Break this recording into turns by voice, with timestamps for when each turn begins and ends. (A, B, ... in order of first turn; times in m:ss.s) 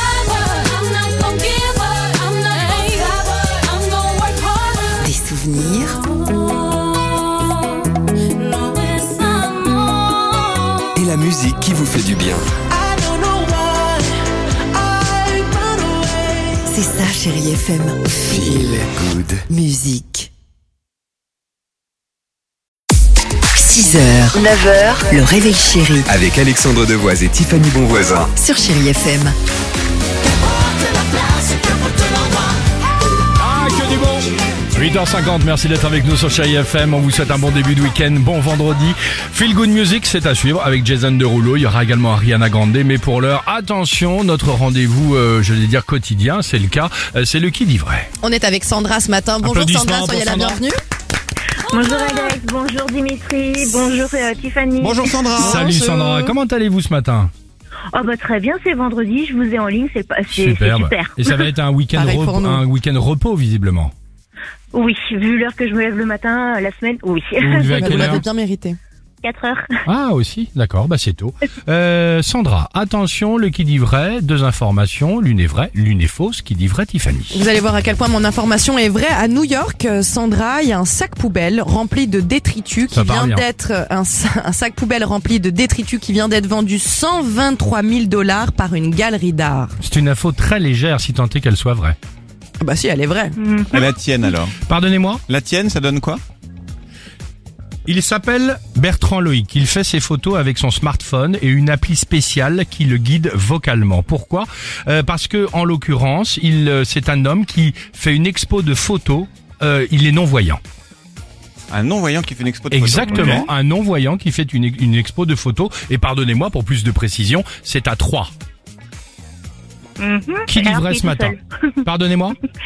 0:01.2-0:03.5 A
0:05.0-0:06.0 B
0:11.0-0:12.5 C
0:12.9-0:14.1 A
0:14.8-0:16.2 A
0:16.6-0:18.8 B
0:18.3-0:19.4 C
0:19.5-0:20.3 B
0:23.5-0:26.1 B
0:26.1-0:28.3 C
0:28.3-0:29.3 B
0:33.4-0:48.1 D
0:48.2-0:50.8 E
0:49.4-0:50.6 D
0:51.7-0:55.3 F
0:54.8-0:55.6 G
0:55.4-0:56.3 E
0:55.4-0:57.3 D
0:57.9-1:01.3 F
1:00.3-1:03.9 D
1:01.9-1:02.6 E
1:04.7-1:08.2 F
1:07.4-1:08.2 D
1:07.7-1:08.8 E
1:09.2-1:09.7 F
1:09.9-1:17.4 D
1:17.3-1:29.8 E
1:22.9-1:23.4 D
1:29.8-1:32.0 D
1:32.6-1:33.4 E
1:33.4-1:33.8 F
1:33.7-1:34.6 G
1:34.6-1:35.2 D
1:35.3-1:36.2 G
1:37.8-1:50.6 D
1:51.7-1:53.5 G
1:52.7-1:58.3 D
1:53.0-1:53.4 F
2:00.0-2:01.4 F
2:00.5-2:02.4 D